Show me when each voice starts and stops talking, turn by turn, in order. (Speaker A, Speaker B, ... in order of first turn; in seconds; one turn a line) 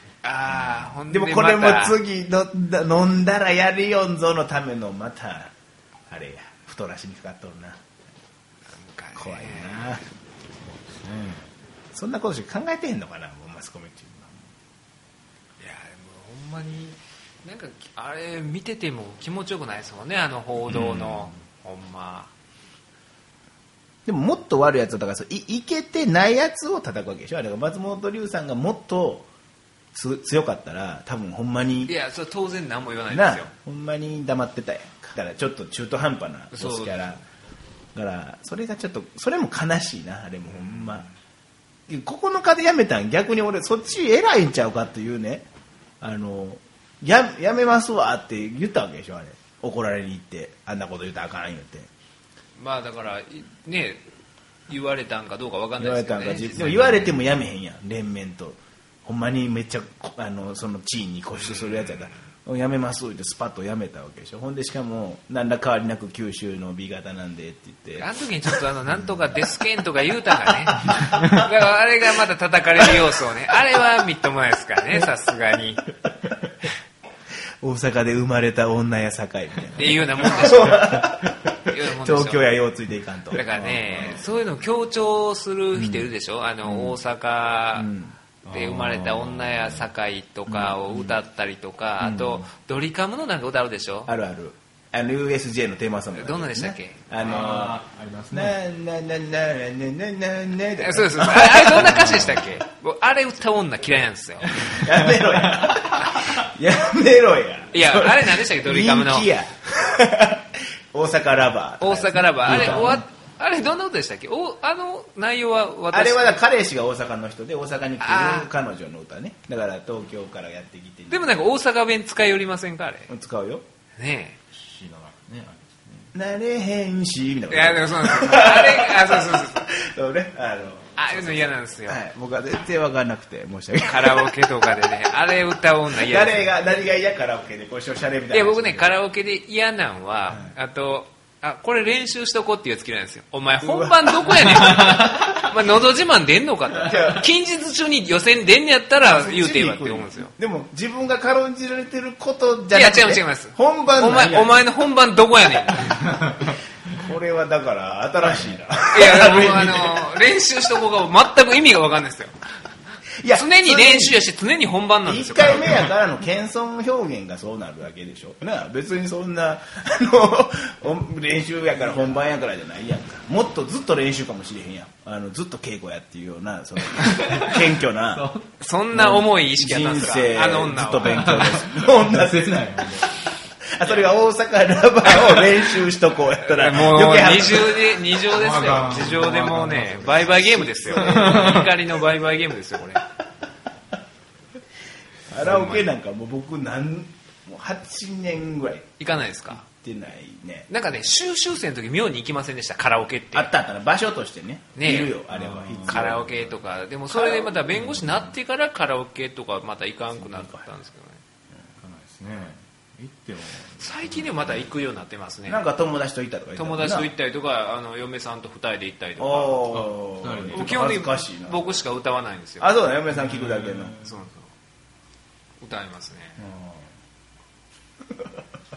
Speaker A: 0.2-2.0
Speaker B: 0.6-5.5
Speaker B: 6.1-7.8
Speaker A: 8.7-10.0
Speaker B: 9.2-10.0
Speaker C: 10.6-11.5
Speaker B: 11.9-14.4
Speaker A: 15.6-22.3
Speaker B: 20.7-21.3
Speaker B: 24.1-29.3
Speaker B: 29.9-31.9
Speaker A: 31.9-33.5
Speaker B: 33.1-37.2
Speaker A: 36.5-37.1
Speaker B: 37.9-41.1
Speaker B: 41.9-45.5
Speaker B: 46.0-51.9
Speaker A: 52.6-54.0
Speaker A: 54.7-57.1
Speaker B: 55.8-68.6
Speaker A: 68.0-75.8
Speaker B: 70.8-71.4
Speaker B: 77.6-84.3
Speaker A: 79.8-81.1
Speaker A: 81.7-82.5
Speaker A: 83.3-87.9
Speaker B: 85.7-86.1
Speaker B: 86.6-87.0
Speaker B: 87.7-88.2
Speaker C: 88.5-89.9
Speaker A: 88.5-94.1
Speaker B: 90.5-91.2
Speaker B: 92.0-92.5
Speaker B: 94.1-97.8
Speaker A: 96.2-97.0
Speaker C: 97.2-98.5
Speaker B: 98.3-102.5
Speaker A: 100.8-104.7
Speaker C: 101.9-102.4
Speaker C: 104.6-105.9
Speaker B: 104.6-113.0
Speaker A: 107.7-109.3
Speaker A: 111.8-116.4
Speaker B: 115.9-121.3
Speaker A: 118.0-118.5
Speaker A: 121.1-123.1
Speaker B: 123.1-123.6
Speaker A: 124.0-124.4
Speaker C: 124.5-126.1
Speaker B: 126.1-134.5
Speaker A: 127.5-129.7
Speaker A: 130.9-132.0
Speaker A: 133.9-136.5
Speaker B: 135.9-138.9
Speaker A: 138.3-150.3
Speaker B: 143.6-145.5
Speaker C: 144.8-145.0
Speaker B: 146.8-147.3
Speaker B: 149.0-154.7
Speaker A: 152.7-156.0
Speaker B: 156.9-160.2
Speaker A: 158.9-162.3
Speaker B: 163.2-164.2
Speaker A: 163.3-165.9
Speaker B: 165.0-178.3
Speaker C: 177.0-178.4
Speaker A: 178.6-181.5
Speaker B: 178.9-183.1
Speaker C: 181.0-183.0
Speaker B: 183.7-188.0
Speaker A: 185.1-185.4
Speaker A: 186.4-193.0
Speaker C: 188.3-190.3
Speaker B: 190.4-191.6
Speaker C: 190.9-191.7
Speaker B: 195.3-199.0
Speaker A: 195.4-195.8
Speaker A: 199.0-199.6
Speaker B: 199.6-200.7
Speaker A: 200.7-203.5
Speaker B: 203.3-206.5
Speaker A: 204.8-205.1
Speaker C: 205.3-206.1
Speaker A: 205.8-211.2
Speaker B: 207.1-207.6
Speaker C: 207.8-208.2
Speaker B: 210.1-210.7
Speaker C: 211.8-214.5
Speaker A: 213.8-215.6
Speaker B: 215.5-217.1
Speaker A: 216.6-219.8
Speaker B: 219.2-221.8
Speaker C: 219.7-220.7
Speaker A: 220.5-222.7
Speaker B: 222.6-224.0
Speaker C: 223.2-224.1
Speaker A: 224.0-224.5
Speaker A: 225.6-226.4
Speaker B: 226.4-226.8